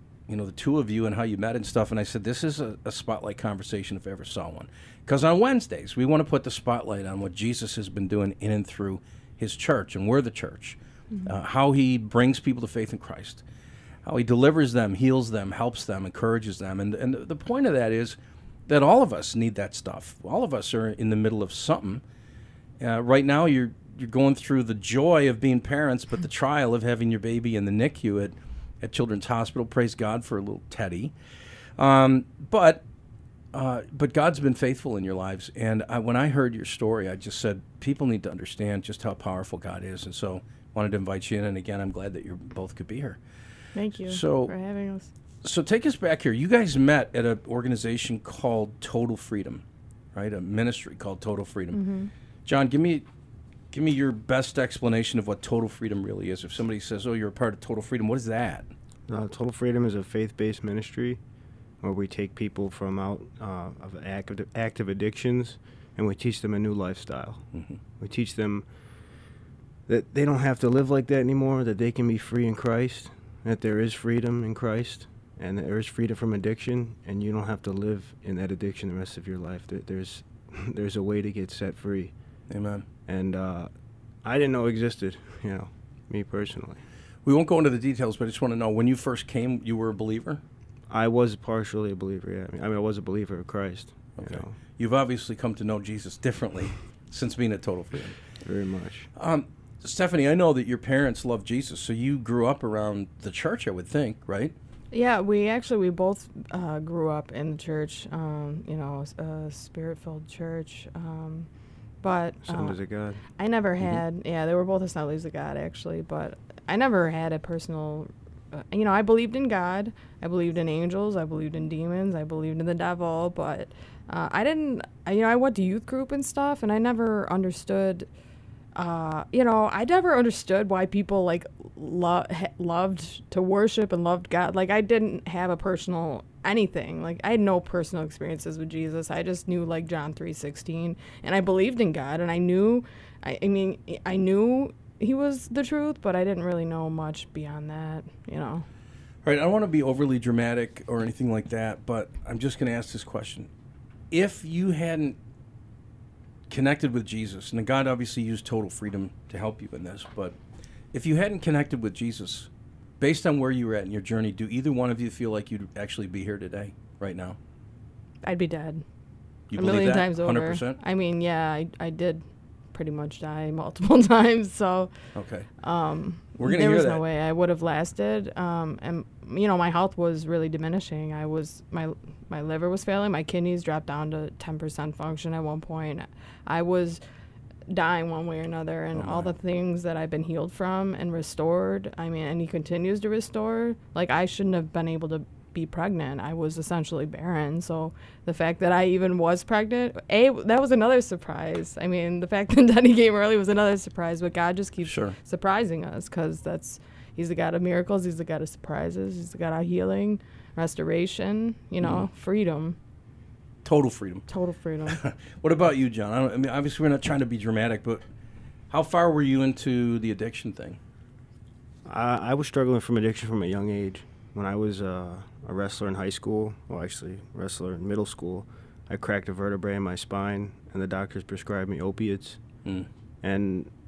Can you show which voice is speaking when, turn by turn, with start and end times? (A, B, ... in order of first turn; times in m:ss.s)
0:00.3-0:13.4 A
0:14.0-0:18.2 A
0:18.7-0:22.0 A
0:22.8-0:31.1 A
0:31.8-0:32.8 A
0:33.5-0:43.2 A
0:43.8-0:45.1 B
0:44.1-0:44.5 A
0:45.4-0:51.8 A
0:51.7-0:52.1 B
0:52.5-0:53.1 A
0:53.7-0:58.7 A
0:59.1-1:01.2 C
1:01.8-1:07.4 C
1:08.0-1:08.7 C
1:09.9-1:22.1 C
1:22.5-1:22.8 A
1:23.1-1:23.7 C
1:24.2-1:26.8 C
1:27.2-1:30.4 A
1:30.9-1:34.6 C
1:34.2-1:38.2 A
1:38.4-1:39.1 C
1:39.2-1:44.6 A
1:44.9-1:51.5 B
1:52.0-1:52.8 B
1:52.4-1:53.2 C
1:53.4-2:08.1 B
2:08.8-2:28.7 B
2:29.2-2:33.5 A
2:34.1-2:35.2 A
2:36.5-2:40.4 A
2:40.9-2:47.4 A
2:48.2-2:48.8 B
2:49.5-2:50.8 A
2:49.5-2:52.2 B
2:52.7-2:54.9 B
2:55.2-2:55.5 A
2:55.6-3:07.0 B
2:56.4-2:57.0 A
3:07.7-3:32.8 B
3:09.0-3:09.3 A
3:24.8-3:25.2 A
3:31.8-3:32.1 A
3:33.6-3:34.3 A
3:34.3-3:35.0 B
3:34.9-3:38.0 A
3:38.7-3:40.8 A
3:41.9-3:52.4 C
3:53.2-3:53.7 C